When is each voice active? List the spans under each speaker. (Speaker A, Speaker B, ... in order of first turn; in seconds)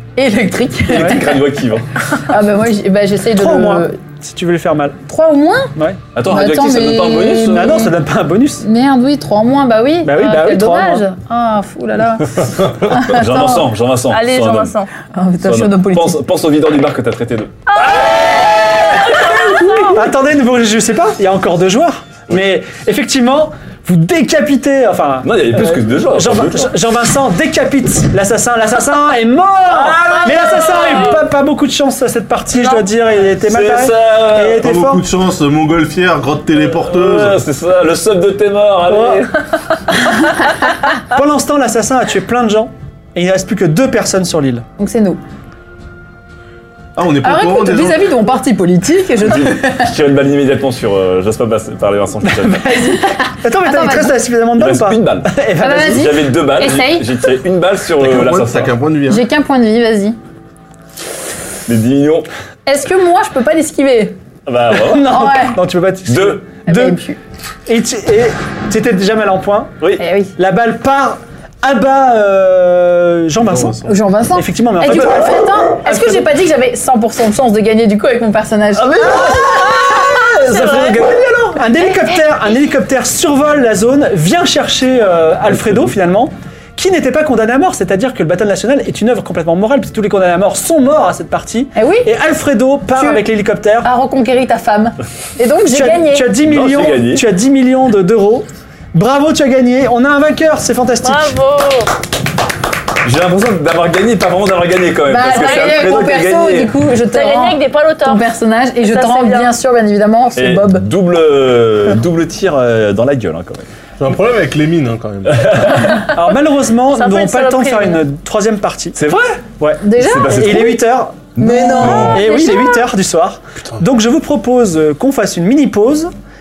Speaker A: 0.1-1.6, 2.2-4.0, 5.0-8.0, 8.6-13.8, 15.1-16.2, 44.8-45.2, 47.2-49.9, 52.7-54.2, 55.6-57.3, 59.1-60.2, 62.6-64.2, 65.0-65.6, 66.7-67.2, 70.0-70.3, 73.8-79.7, 91.7-92.1, 92.9-93.2, 93.8-96.3, 105.0-110.9, 119.8-120.8, 121.3-122.8
Speaker B: 0.9-1.9, 6.1-7.9, 12.9-14.8, 15.4-19.8, 25.2-26.7, 29.7-31.2, 33.4-34.7, 36.6-39.4, 49.2-52.6, 54.6-58.8, 61.7-62.3, 64.5-65.3, 66.1-66.4, 69.8-70.0, 96.4-97.2, 103.0-106.8, 110.3-113.7, 115.3-116.1, 118.9-120.8, 121.3-122.2
Speaker C: 3.3-5.0, 7.5-8.7, 10.0-11.0, 19.5-35.0, 38.9-39.2, 41.0-44.6, 52.2-56.1, 64.7-67.0, 67.7-69.8, 70.3-76.3, 79.0-93.9, 95.7-101.3, 115.8-119.0, 119.6-126.1
Speaker D: 14.1-14.9, 17.8-18.1, 18.9-19.9, 30.1-31.2, 32.5-32.9, 79.8-81.1, 101.0-102.0, 105.2-105.9, 107.1-108.3, 108.8-109.5, 116.9-118.0, 122.3-122.7
Speaker E: 34.6-37.4, 47.0-48.0, 58.0-59.2, 73.5-73.8, 114.0-115.7